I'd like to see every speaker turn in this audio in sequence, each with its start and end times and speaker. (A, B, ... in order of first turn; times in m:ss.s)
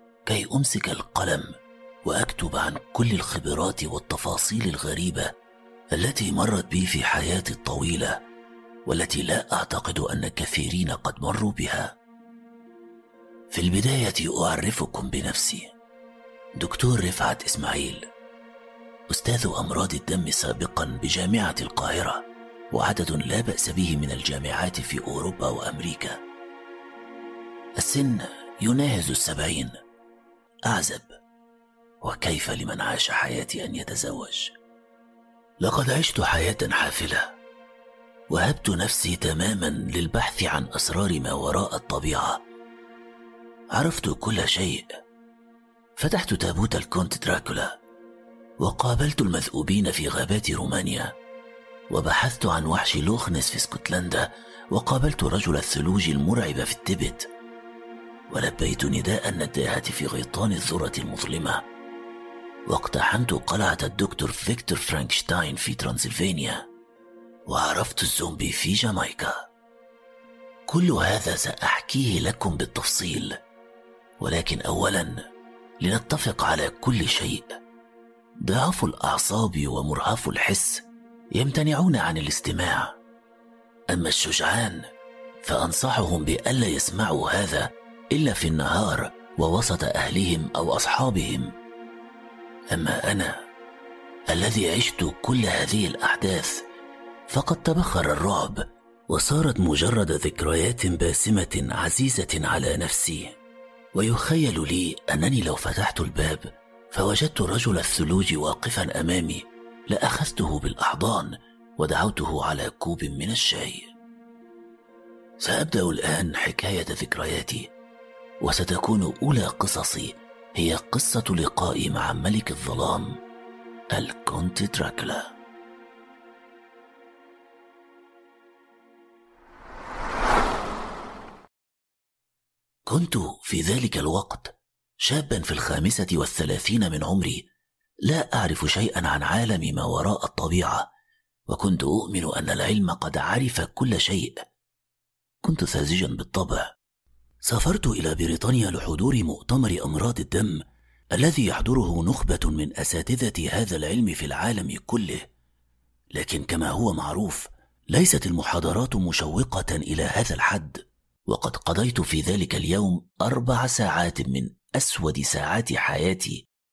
0:00.3-0:01.5 A
0:02.0-0:05.3 A
0:06.0-0:08.2 A
0:08.9-0:12.0 A
0:13.5-0:15.7 A
0:16.6-0:18.0 A
0:19.1-0:26.2 A
0:27.8-0:29.7 A
0:30.7-0:31.1 A
0:32.0-0:34.5 A
0:35.6-0:37.3 A
0:38.3-0:42.4 A
0:43.7-0:44.9 A
0:46.0-0:47.7 A
0:48.6-0:51.1 A
0:51.9-0:57.3 A
0:58.3-1:01.6 A
1:02.7-1:06.6 A
1:07.5-1:09.3 A
1:10.7-1:13.4 A
1:14.2-1:15.2 A
1:15.8-1:17.5 A
1:18.4-1:20.8 A
1:21.4-1:22.9 A
1:23.9-1:24.8 A
1:25.4-1:31.5 A
1:32.7-1:33.4 A
1:34.3-1:36.6 A
1:37.3-1:43.4 A
1:44.0-1:53.9 A
1:55.4-1:57.7 A
1:58.4-2:03.1 A
2:03.9-2:05.3 A
2:12.9-2:17.5 A
2:18.1-2:20.9 A
2:21.5-2:24.4 A
2:25.4-2:26.7 A
2:27.4-2:30.6 A
2:31.2-2:35.3 A
2:36.1-2:46.4 A